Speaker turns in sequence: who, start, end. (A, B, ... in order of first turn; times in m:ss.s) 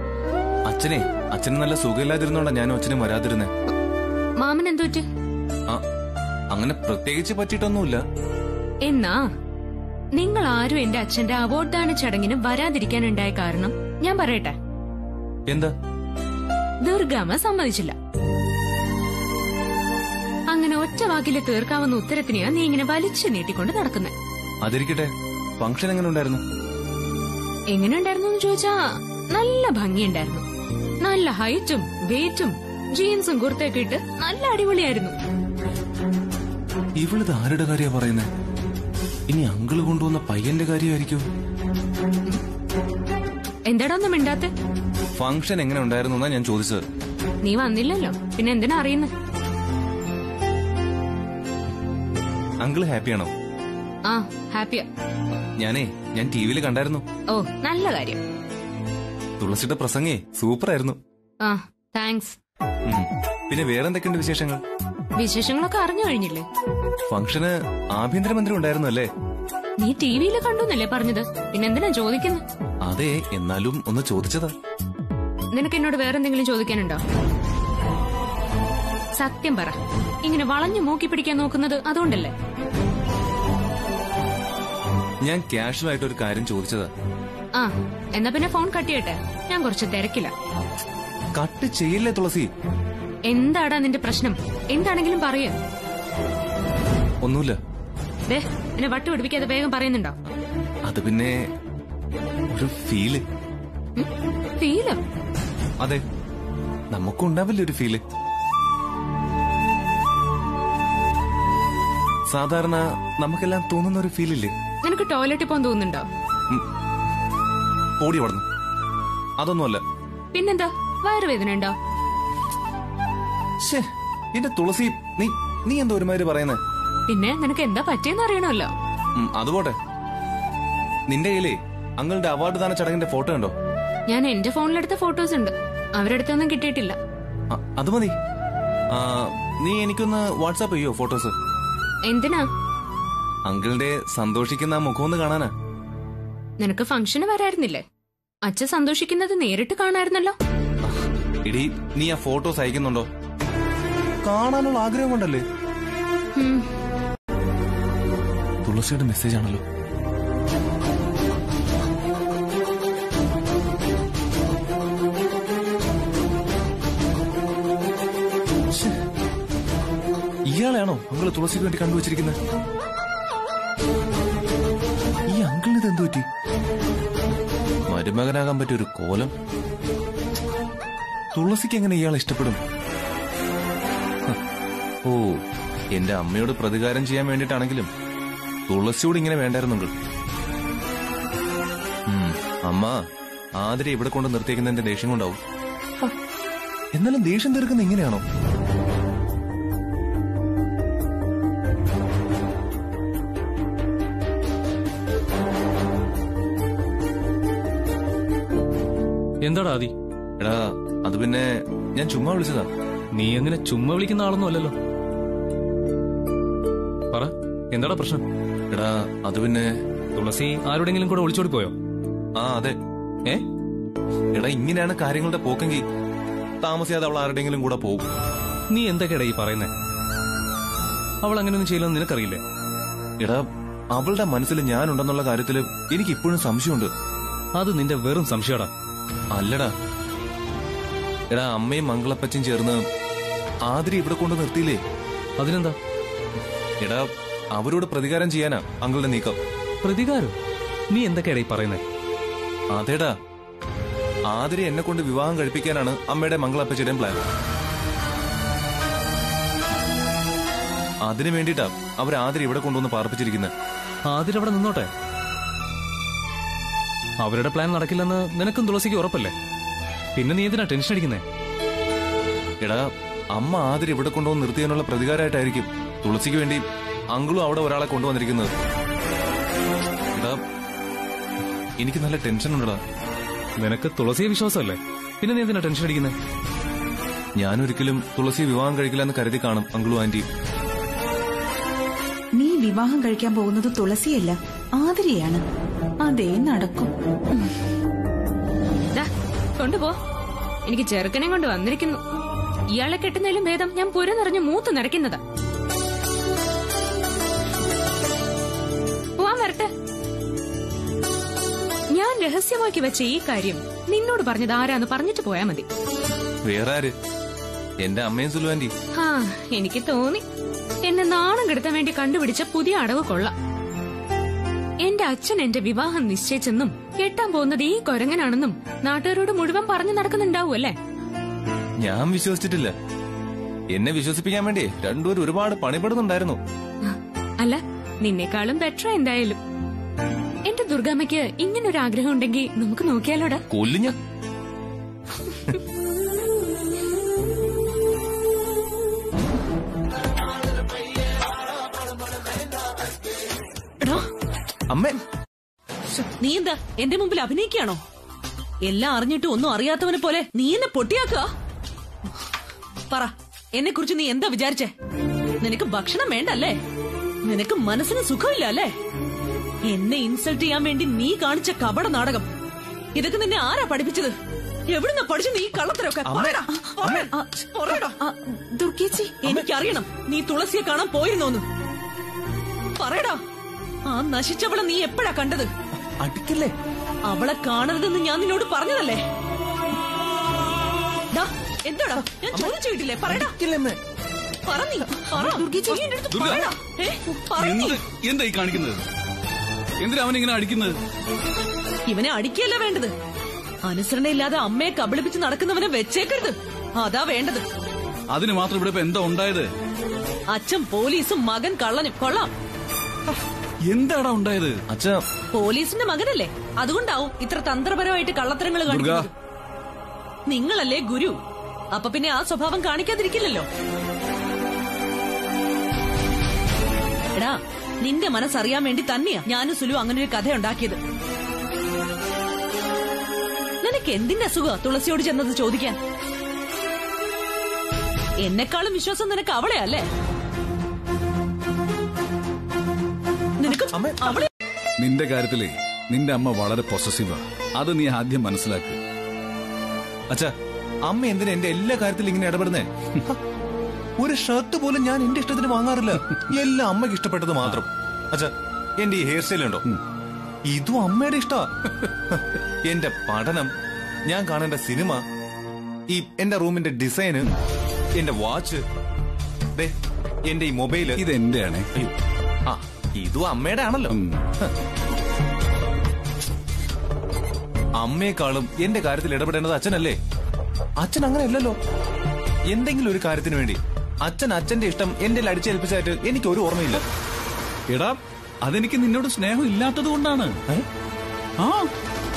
0:00.7-0:03.5 A
0:04.4-0:05.1 B
0:06.5-0:08.0 A
0:08.8-0:09.3 B
0:10.2-0:14.6 B
0:16.8-0:18.0 B
0:20.5-0:24.1 B
0:24.6-0:26.4 A
0:27.7-0:28.8 B
0:29.3-0:30.4 B
0:31.0-0:35.2 B
0:37.0-0:38.3 A
0:39.3-0:41.2 A
0:43.7-0:44.5 B
0:45.2-0:46.8 A
0:47.4-0:49.1 B
0:52.6-0:53.3 A
0:54.1-0:54.9 B
0:55.6-0:57.0 A
0:57.3-0:58.2 B
0:59.4-1:01.0 A
1:01.4-1:02.4 B
1:02.9-1:04.6 A
1:05.2-1:06.5 B
1:07.1-1:09.1 A
1:09.8-1:12.4 B
1:12.9-1:14.5 A
1:15.6-1:17.0 B
1:19.2-1:22.4 B
1:25.2-1:26.9 A
1:27.6-1:30.3 B
1:31.4-1:32.5 A
1:33.3-1:35.6 B
1:37.2-1:37.6 A
1:38.3-1:40.2 B
1:40.9-1:41.4 A
1:42.5-1:43.2 A
1:44.0-1:45.0 B
1:46.9-1:48.0 A
1:52.3-1:54.5 A
1:54.8-1:56.1 B
1:58.0-1:58.4 A
1:59.4-1:59.8 A
2:00.3-2:01.8 B
2:03.6-2:06.6 A
2:07.1-2:08.7 B
2:09.2-2:09.8 A
2:11.1-2:13.5 A
2:14.1-2:17.0 B
2:17.5-2:18.2 A
2:18.9-2:21.3 A
2:22.1-2:22.5 B
2:23.5-2:25.5 A
2:26.6-2:27.8 B
2:28.4-2:30.4 B
2:30.8-2:33.1 A
2:34.2-2:35.4 A
2:36.4-2:36.7 B
2:38.6-2:39.6 A
2:50.5-2:52.4 A
2:55.3-2:56.3 A
2:57.9-2:59.3 A
3:01.4-3:02.6 A
3:05.0-3:05.4 A
3:06.0-3:07.9 A
3:08.7-3:09.9 A
3:12.1-3:13.0 A
3:13.6-3:15.4 A
3:17.0-3:18.2 A
3:29.4-3:29.9 C
3:30.4-3:32.7 A
3:33.2-3:34.7 C
3:37.1-3:38.2 C
3:38.7-3:39.7 A
3:40.2-3:41.7 C
3:42.4-3:43.4 A
3:44.4-3:45.8 A
3:46.6-3:48.1 A
3:48.7-3:49.7 C
3:51.2-3:52.4 C
3:53.2-3:56.9 A
3:57.6-3:58.7 C
3:59.3-3:59.7 A
4:01.3-4:02.8 A
4:03.7-4:04.8 A
4:05.4-4:05.8 C
4:06.8-4:09.4 A
4:09.8-4:10.3 C
4:10.9-4:11.8 C
4:12.7-4:13.1 A
4:14.3-4:17.2 A
4:21.0-4:23.5 A
4:24.1-4:24.9 C
4:27.2-4:29.3 C
4:30.2-4:31.2 C
4:32.6-4:36.6 A
4:37.1-4:38.5 A
4:40.2-4:40.4 A
4:41.8-4:42.8 A
4:43.6-4:46.2 C
4:47.4-4:50.2 A
4:52.4-4:55.4 D
4:56.0-4:56.9 D
4:58.9-5:00.0 B
5:00.7-5:02.0 B
5:02.7-5:05.2 B
5:09.2-5:09.7 B
5:11.9-5:15.7 B
5:16.4-5:16.9 A
5:17.8-5:18.7 A
5:19.0-5:20.2 B
5:20.8-5:23.3 B
5:24.8-5:30.8 B
5:31.8-5:32.7 A
5:33.7-5:36.4 A
5:36.8-5:39.4 B
5:40.5-5:43.4 B
5:43.5-5:44.0 A
5:54.7-5:55.0 A
5:56.2-5:57.8 E
5:58.7-6:01.3 E
6:02.9-6:04.7 E
6:05.4-6:06.6 E
6:07.2-6:08.7 E
6:09.7-6:12.3 E
6:13.0-6:14.2 E
6:14.7-6:18.0 E
6:16.1-6:17.1 A
6:16.2-6:19.2 D
6:19.2-6:21.4 E
6:22.8-6:23.2 E
6:23.9-6:25.5 E
6:26.0-6:26.5 A
6:27.1-6:29.0 E
6:31.1-6:33.3 E
6:32.2-6:32.6 A
6:33.1-6:33.8 A
6:34.5-6:37.8 E
6:35.2-6:36.5 D
6:36.1-6:36.4 F
6:37.4-6:38.8 F
6:39.8-6:40.8 F
6:41.9-6:42.9 E
6:43.7-6:47.4 E
6:48.1-6:49.5 F
6:50.3-6:52.3 E
6:53.7-6:54.6 F
6:54.7-6:55.0 A
6:55.3-6:59.1 E
6:58.7-6:59.1 F
7:00.3-7:01.2 E
7:01.7-7:03.5 E
7:07.2-7:10.8 E
7:13.6-7:15.8 E
7:18.2-7:19.9 E
7:23.4-7:24.3 E
7:23.6-7:24.2 A
7:24.8-7:28.8 F
7:30.9-7:33.2 A
7:34.0-7:39.6 A
7:40.5-7:41.5 A
7:42.1-7:43.5 A
7:44.1-7:45.0 A
7:45.9-7:47.3 A
7:48.0-7:48.6 A
7:50.3-7:51.0 A
7:51.0-7:51.9 F
7:52.5-7:54.5 A
7:53.9-7:54.2 F
7:57.8-8:00.0 A
8:00.8-8:01.6 A
8:02.5-8:06.8 A
8:07.7-8:10.4 F
8:11.4-8:11.7 F